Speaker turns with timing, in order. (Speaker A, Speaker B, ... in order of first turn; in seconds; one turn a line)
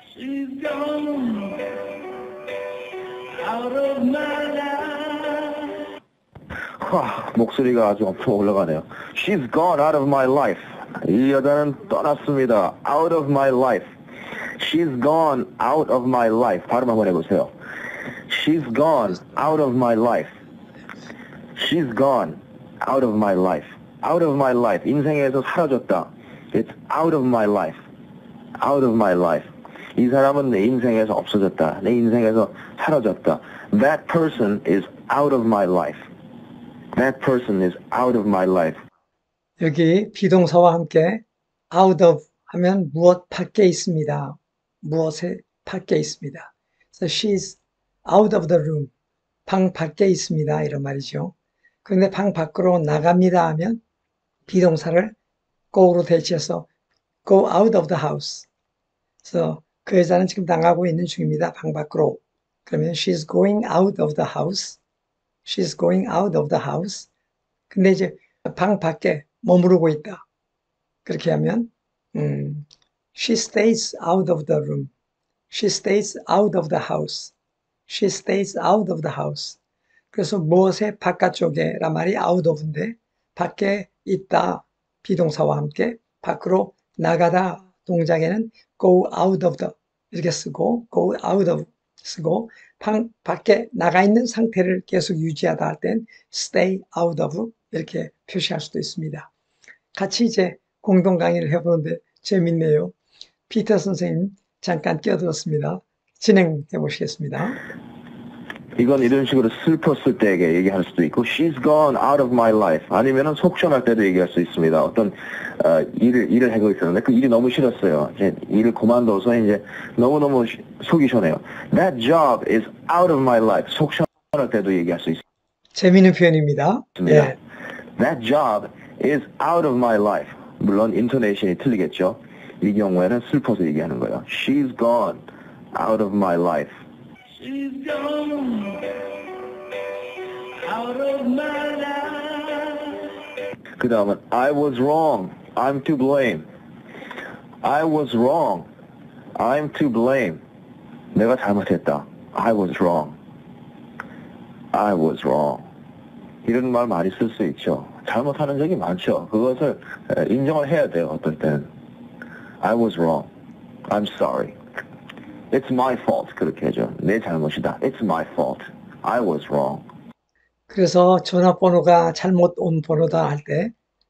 Speaker A: 0.2-1.4
Speaker A: 3.6-4.3
Speaker B: 3.7-5.0
Speaker A: 5.0-5.4
Speaker A: 6.8-13.9
Speaker A: 14.6-17.5
Speaker A: 18.3-20.3
Speaker A: 21.6-27.8
Speaker A: 28.6-36.1
Speaker A: 37.0-38.8
Speaker C: 39.6-48.9
Speaker C: 49.5-53.8
Speaker C: 54.5-55.2
Speaker C: 55.7-56.7
Speaker C: 57.2-58.5
Speaker C: 59.2-64.8
Speaker C: 65.4-67.1
Speaker C: 67.7-70.2
Speaker C: 71.0-74.9
Speaker C: 75.5-77.3
Speaker C: 77.9-79.6
Speaker C: 80.1-99.3
Speaker C: 100.0-102.9
Speaker C: 103.5-107.6
Speaker A: 108.8-125.2
Speaker C: 125.7-127.4
Speaker A: 127.0-127.3
Speaker A: 128.0-135.2
Speaker A: 135.7-136.8
Speaker A: 137.4-138.8
Speaker B: 140.7-141.7
Speaker A: 141.1-142.8
Speaker A: 143.8-146.5
Speaker A: 147.6-148.7
Speaker A: 149.4-150.4
Speaker A: 151.2-153.2
Speaker A: 154.7-155.7
Speaker A: 156.4-161.7
Speaker A: 162.6-163.3
Speaker A: 163.9-164.6
Speaker A: 165.5-169.8
Speaker C: 170.7-173.7